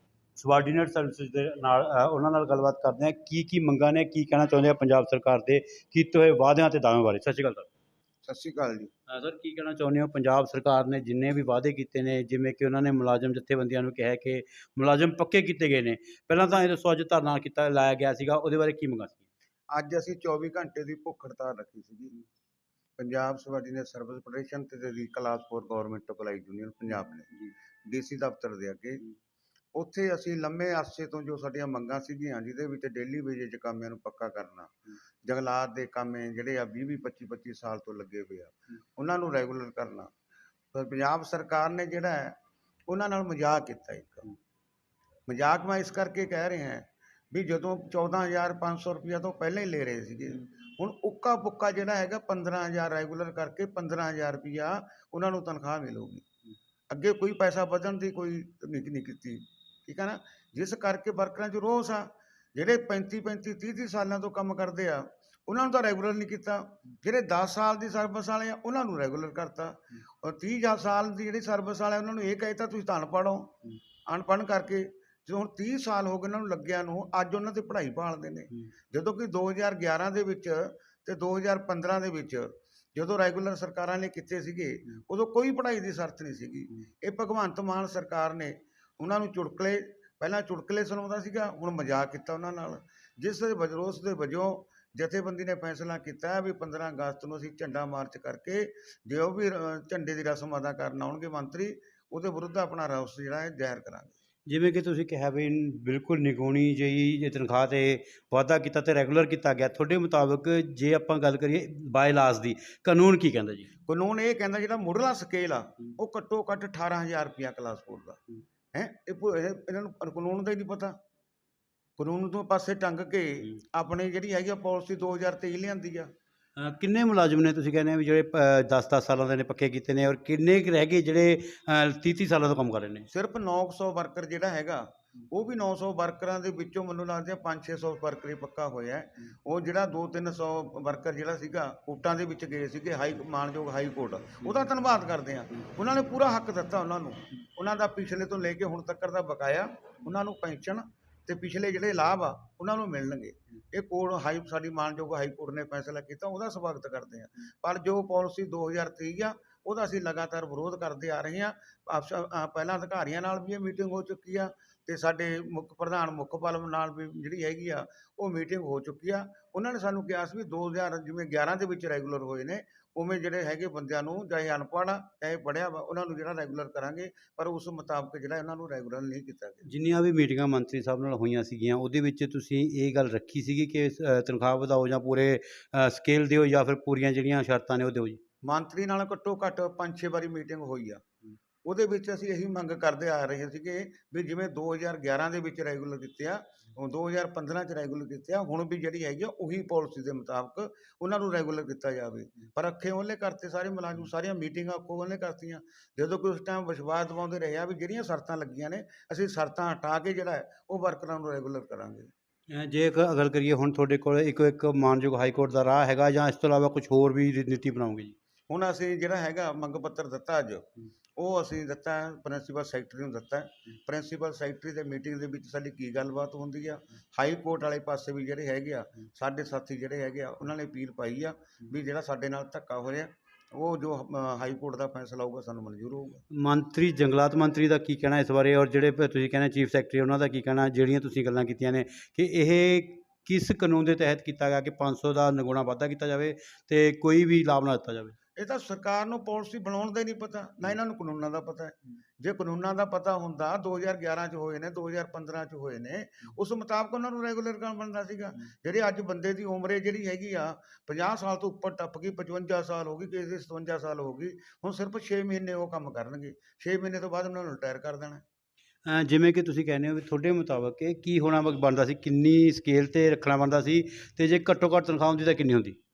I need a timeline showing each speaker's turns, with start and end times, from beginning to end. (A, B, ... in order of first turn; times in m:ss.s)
0:00.4-0:07.7 A
0:08.2-0:08.9 B
0:09.1-0:19.2 A
0:19.7-0:22.2 B
0:23.0-0:29.0 B
0:29.7-0:40.1 B
0:40.7-0:44.3 B
0:45.3-0:56.2 B
0:56.9-1:44.2 B
1:44.5-1:53.7 A
1:53.8-1:58.2 B
1:58.7-2:01.0 B
2:02.0-2:06.1 B
2:06.6-2:13.1 A
2:13.1-2:59.7 B
2:59.6-3:08.2 A
3:08.4-3:11.0 B
3:11.6-3:32.1 B
3:32.5-3:38.2 A
3:38.5-3:56.2 B
3:56.3-4:08.2 A
4:08.4-4:28.2 B
4:28.8-4:35.8 A